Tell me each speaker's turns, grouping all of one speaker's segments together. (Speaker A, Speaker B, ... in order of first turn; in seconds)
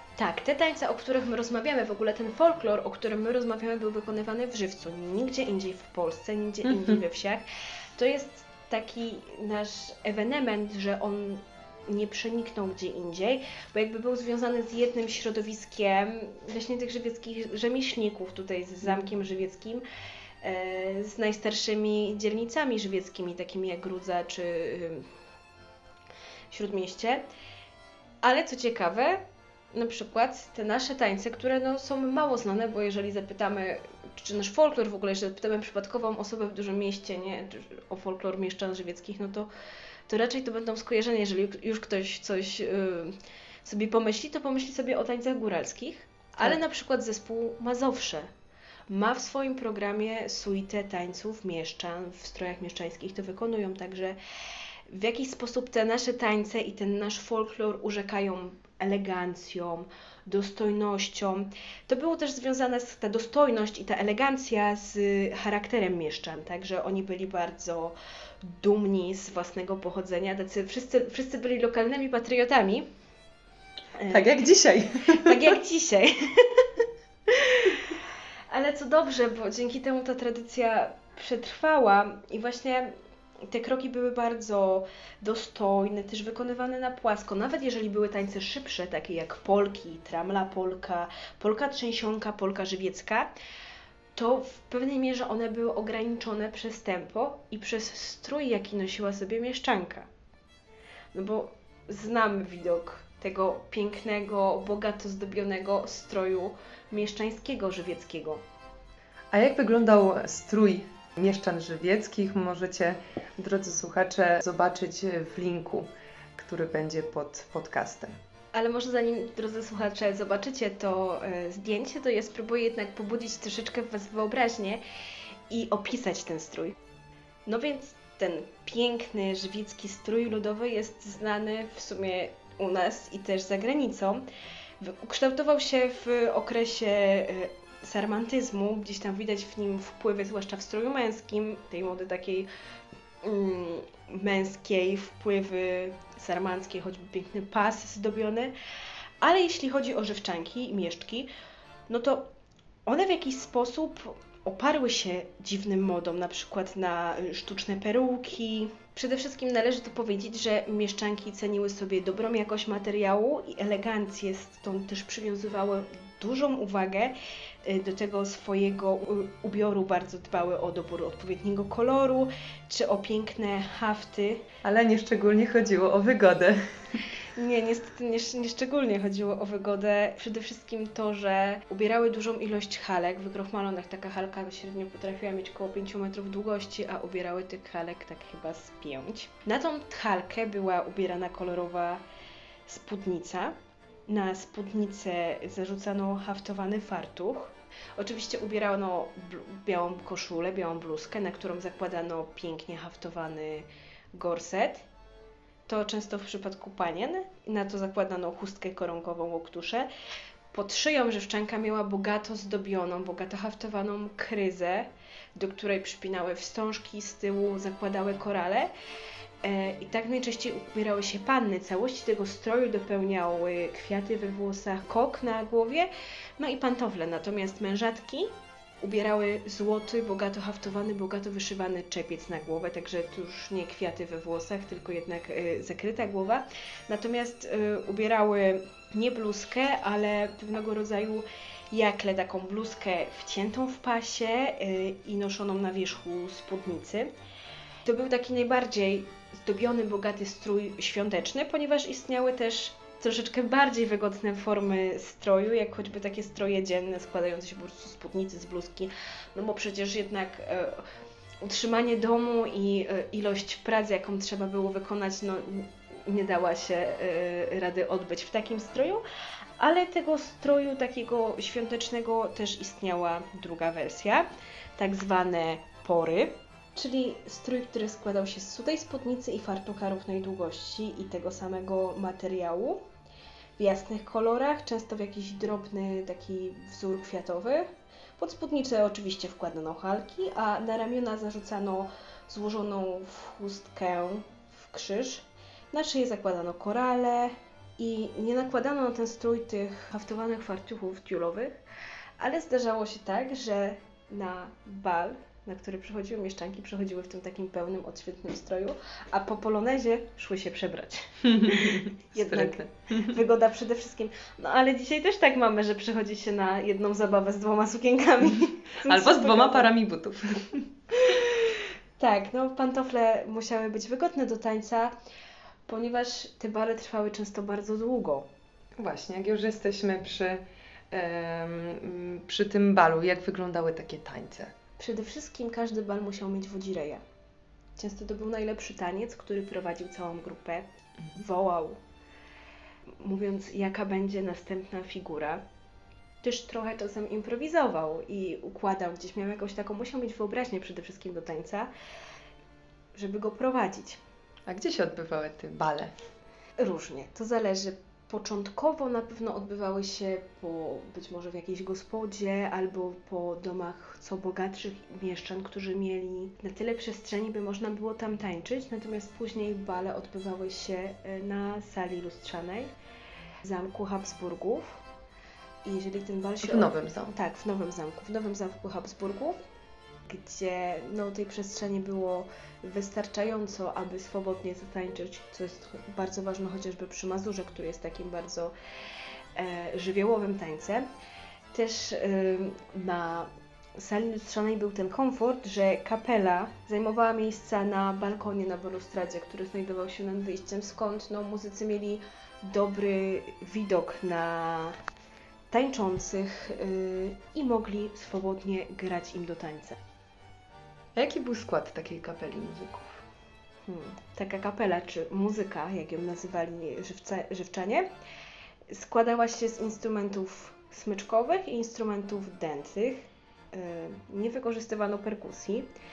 Speaker A: 0.2-7.4, 8.0-19.8, 20.4-25.1, 26.5-27.3, 28.2-29.2, 29.7-39.5, 40.1-48.3, 48.9-54.2, 54.9-72.9, 74.0-74.4, 75.0-76.7, 77.3-77.9, 78.5-83.0, 83.5-93.3, 94.2-100.1, 101.1-108.4, 118.5-124.8, 125.5-126.8, 127.5-134.2, 134.8-142.5, 143.2-148.5, 149.2-151.3, 151.9-152.3, 152.9-174.4, 177.4-192.0, 192.7-193.6, 194.1-204.8, 205.7-209.9, 210.5-218.7, 219.4-247.1, 247.8-260.9, 261.4-269.0, 269.6-274.3, 274.8-282.8, 283.6-301.6, 302.2-319.7, 322.0-324.9, 325.7-328.3, 334.8-337.0, 337.8-341.8, 343.0-345.4, 346.2-351.7, 352.9-354.0, 356.6-372.7, 373.4-374.8, 375.6-379.4, 380.1-388.5, 389.4-390.9, 391.5-404.8, 405.5-409.8, 413.7-417.9, 418.7-425.7
Speaker B: 6.7-7.0, 74.1-75.5, 109.3-118.2, 174.6-177.0, 311.3-313.1, 318.9-320.7, 328.8-334.5, 354.5-355.9, 376.4-377.1, 410.9-413.0